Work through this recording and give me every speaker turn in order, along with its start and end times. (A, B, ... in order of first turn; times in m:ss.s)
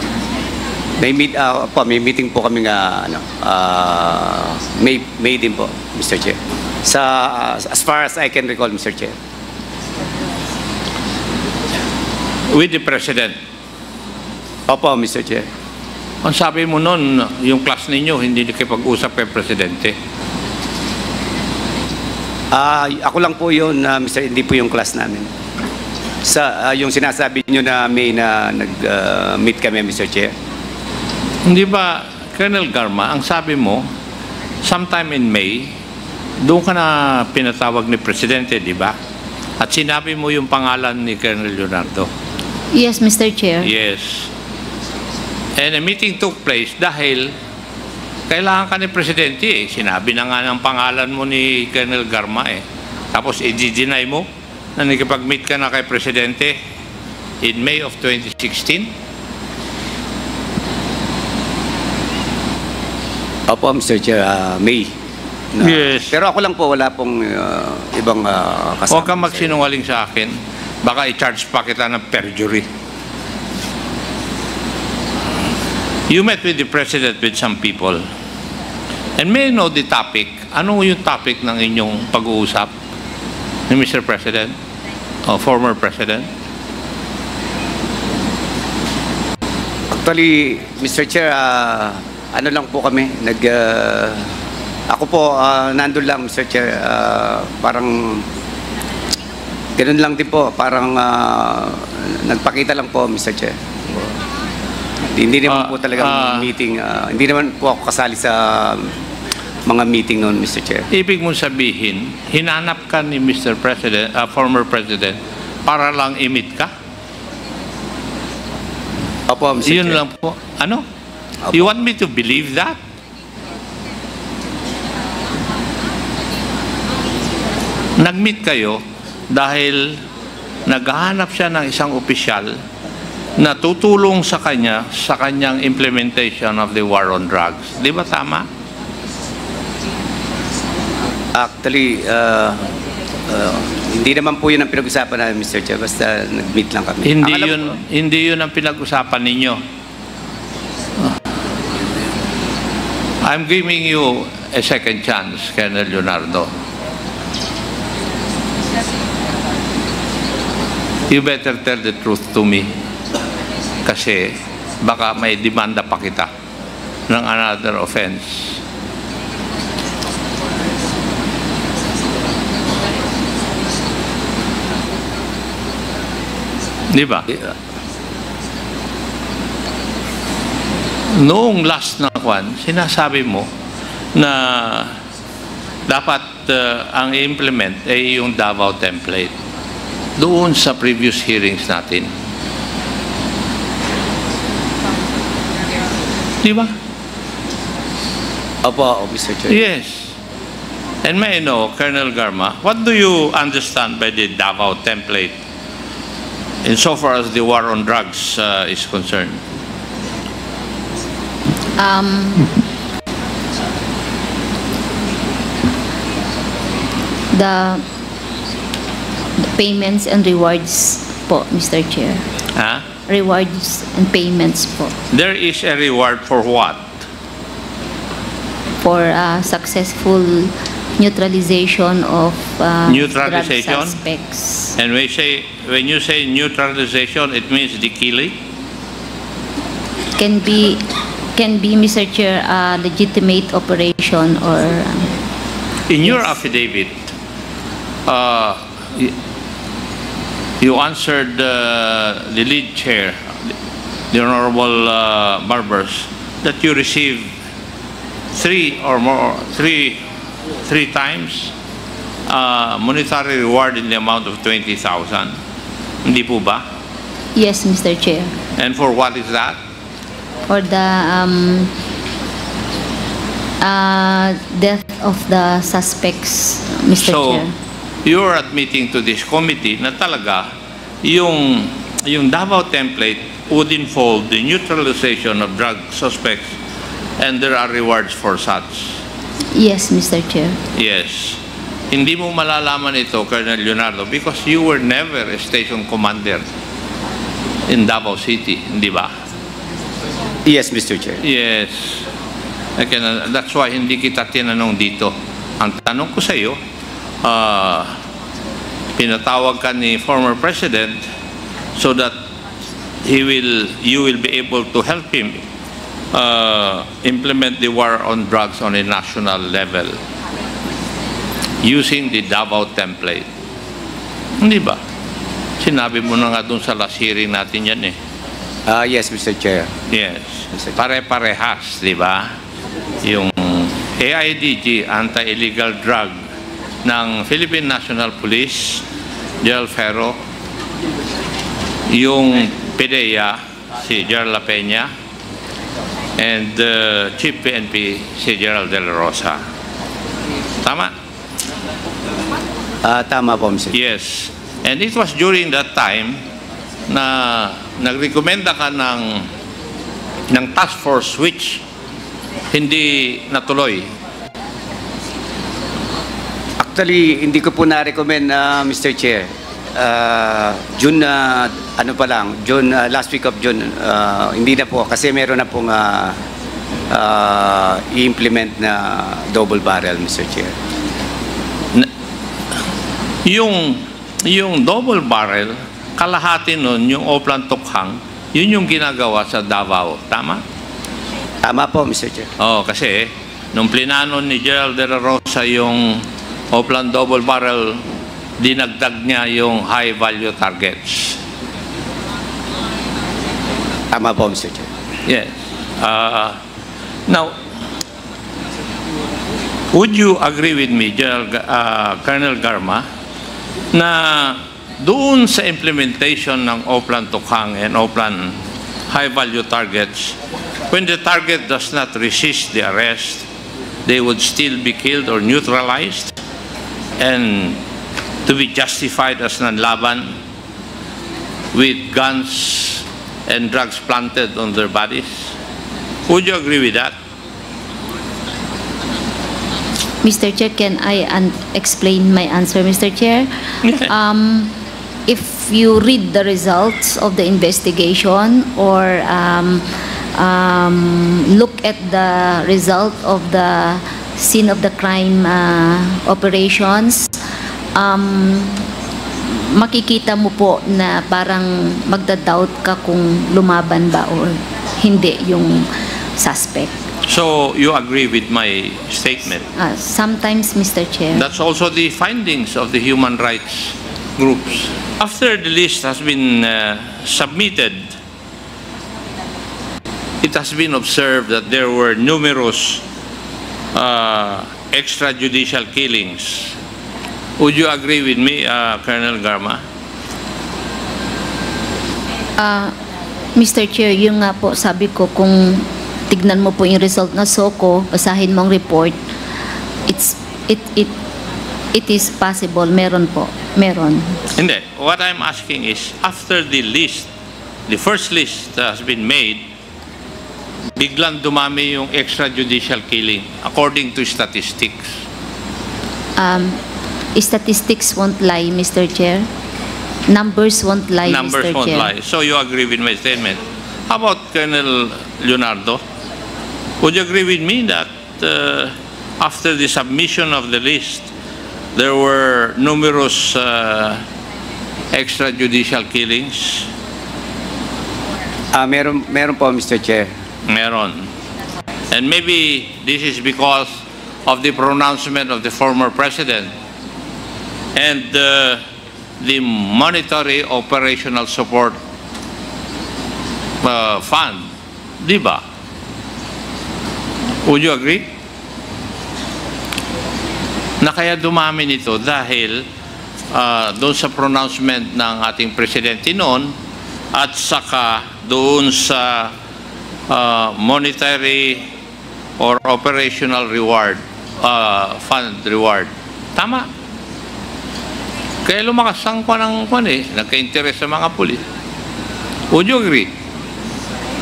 0:01.0-0:09.2 A
0:12.5-0:13.4 B
0:14.7-0:15.4 A
0:16.2-0:19.9 B
0:22.5-0:25.3 A
0:26.2-0:30.3 A
0:31.4-0:33.8 B
0:34.6-0:35.7 B
0:36.4-0:39.0 B
0:39.6-0:42.1 B
0:42.7-0:43.7 C
0:43.6-0:44.3 B
0:45.6-0:47.3 B
0:48.3-0:54.2 B
0:54.8-0:56.5 B
0:57.4-0:58.9 B
1:03.5-1:04.9 A
1:05.6-1:09.6 A
1:05.6-1:06.1 B
1:08.9-1:12.6 B
1:16.1-1:18.0 B
1:19.2-1:22.7 B
1:23.7-1:24.5 B
1:25.2-1:26.3 B
1:29.9-1:34.2 A
1:34.9-1:38.2 A
1:39.8-1:43.5 A
1:45.1-1:48.9 A
1:45.5-1:46.4 B
1:49.7-1:50.9 A
1:50.9-1:56.7 B
1:59.3-2:00.0 A
1:59.6-2:00.8 B
2:01.5-2:02.8 B
2:08.0-2:10.0 B
2:10.7-2:12.6 B
2:13.4-2:18.5 B
2:21.4-2:22.7 A
2:23.3-2:27.6 A
2:27.0-2:29.6 B
2:33.2-2:36.5 B
2:41.1-2:42.7 B
2:43.8-2:46.3 B
2:47.1-2:48.6 B
2:56.9-2:57.3 B
3:01.1-3:03.5 B
3:04.1-3:05.0 B
3:05.9-3:09.3 B
3:10.2-3:12.1 B
3:16.4-3:16.7 B
3:18.6-3:19.6 A
3:19.5-3:20.1 B
3:21.0-3:25.4 B
3:26.6-3:29.4 B
3:31.8-3:32.5 C
3:37.3-3:37.8 C
3:39.6-3:42.2 C
3:42.6-3:42.8 B
3:43.1-3:44.9 C
3:45.1-3:46.9 B
3:48.8-3:54.7 C
3:52.9-3:54.0 B
3:54.8-3:58.4 B
4:00.2-4:00.8 C
4:01.3-4:05.1 C
4:05.9-4:07.1 B
4:08.0-4:09.1 B
4:10.6-4:13.2 B
4:14.1-4:17.3 B
4:18.3-4:20.0 B
4:20.6-4:21.5 B
4:22.3-4:25.4 B
4:26.0-4:26.6 B
4:27.3-4:28.3 C
4:28.6-4:29.6 B
4:30.5-4:31.7 C
4:33.6-4:37.5 C
4:37.0-4:37.4 B
4:38.0-4:40.5 B
4:41.0-4:46.5 B
4:47.2-4:49.0 B
4:49.5-4:50.6 C
4:50.7-4:51.4 B
4:51.9-4:56.5 B
4:57.7-4:59.1 B
5:00.4-5:01.2 A
5:01.2-5:02.0 B
5:02.8-5:06.6 B
5:07.2-5:07.9 B
5:09.0-5:11.0 B
5:11.8-5:12.1 B
5:13.0-5:15.4 B
5:16.1-5:20.0 B
5:21.6-5:23.3 B
5:24.4-5:24.8 B
5:25.6-5:27.9 B
5:28.7-5:29.7 A
5:29.9-5:32.3 B
5:33.0-5:36.1 B
5:36.8-5:38.8 B
5:39.4-5:40.2 B
5:41.9-5:44.9 B
5:46.2-5:49.4 B
5:50.6-5:50.9 B
5:52.8-5:53.7 A
5:53.7-5:56.2 B
5:56.9-5:59.3 B
6:00.3-6:01.6 B
6:02.5-6:03.9 B
6:06.6-6:16.2 A
6:16.9-6:20.5 A
6:23.2-6:30.4 B
6:31.4-6:32.3 A
6:32.4-6:37.8 B
6:38.4-6:41.2 B
6:43.9-6:44.7 A
6:45.1-6:46.4 B
6:47.1-6:47.3 B
6:49.7-6:52.8 B
6:53.7-6:58.4 B
6:58.9-7:00.2 B
7:00.7-7:03.2 B
7:03.8-7:06.2 B
7:07.0-7:07.6 B
7:08.2-7:10.1 B
7:11.5-7:15.3 B
7:16.1-7:16.9 B
7:20.0-7:24.5 C
7:25.1-7:37.2 C
7:37.7-7:38.6 C
7:39.2-7:46.7 C
7:47.0-7:49.4 B
7:49.6-7:51.2 C
7:51.1-7:57.9 B
8:00.2-8:02.8 B
8:03.7-8:06.5 B
8:07.4-8:09.6 B
8:12.4-8:12.7 C
8:13.3-8:19.0 C
8:19.9-8:20.9 C
8:21.7-8:24.2 C
8:24.4-8:27.1 B
8:27.7-8:29.5 B
8:30.8-8:34.9 B
8:36.2-8:36.6 C
8:37.1-8:39.3 C
8:40.1-8:41.9 C
8:41.0-8:45.8 B
8:46.8-8:51.1 B
8:51.7-8:54.0 B
8:54.9-8:56.7 B
8:58.5-9:00.1 A
9:00.5-9:01.1 B
9:01.9-9:03.7 B
9:04.2-9:06.5 B
9:07.7-9:08.6 B
9:09.2-9:11.8 B
9:13.6-9:14.4 B
9:15.0-9:15.4 B
9:17.4-9:18.1 B
9:20.8-9:22.6 B
9:23.3-9:26.5 B
9:27.1-9:29.3 B
9:30.1-9:31.7 B
9:32.4-9:36.7 B
9:38.4-9:41.4 B
9:42.5-9:43.1 B